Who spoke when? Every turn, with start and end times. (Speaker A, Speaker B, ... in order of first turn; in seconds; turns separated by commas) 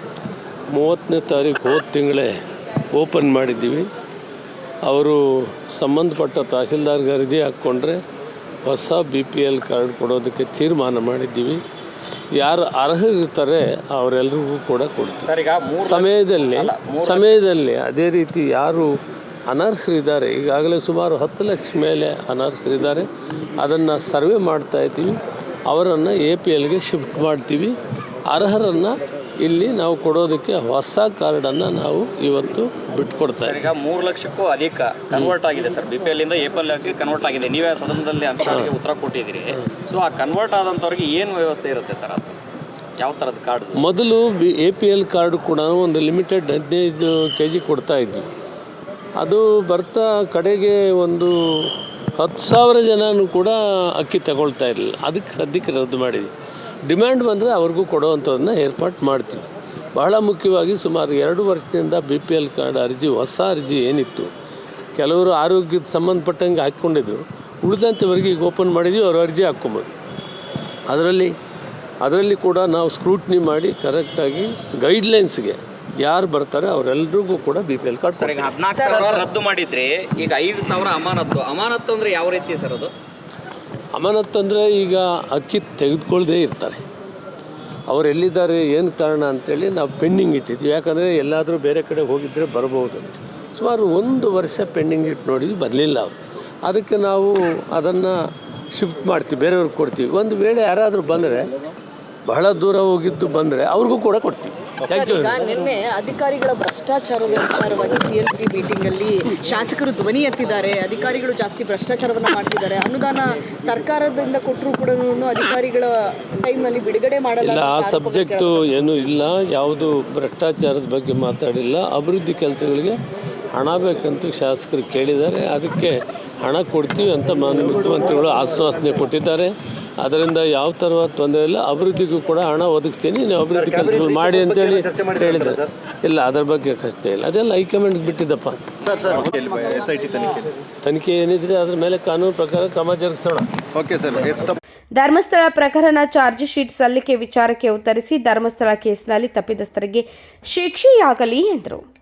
Speaker A: 0.7-2.3, Speaker A: 2.9-3.9, Speaker A: 4.8-8.0, Speaker A: 8.7-11.6, Speaker A: 12.3-18.9, Speaker B: 15.2-17.4, Speaker A: 19.5-23.1, Speaker A: 23.6-27.8, Speaker A: 28.3-33.7, Speaker B: 33.4-42.4, Speaker A: 38.4-38.7, Speaker B: 43.0-43.8, Speaker A: 43.8-48.3, Speaker A: 49.2-56.3, Speaker A: 56.9-64.3, Speaker A: 65.0-69.9, Speaker A: 70.9-71.3, Speaker A: 72.0-78.5, Speaker B: 78.2-82.9, Speaker C: 78.7-79.3, Speaker A: 83.9-86.8, Speaker A: 87.9-98.2, Speaker A: 98.7-101.5, Speaker A: 102.3-105.4, Speaker C: 104.9-118.6, Speaker A: 117.4-123.0, Speaker A: 123.5-138.8, Speaker D: 138.8-140.5, Speaker C: 139.6-139.8, Speaker A: 140.8-143.5, Speaker D: 143.8-144.6, Speaker E: 144.9-151.8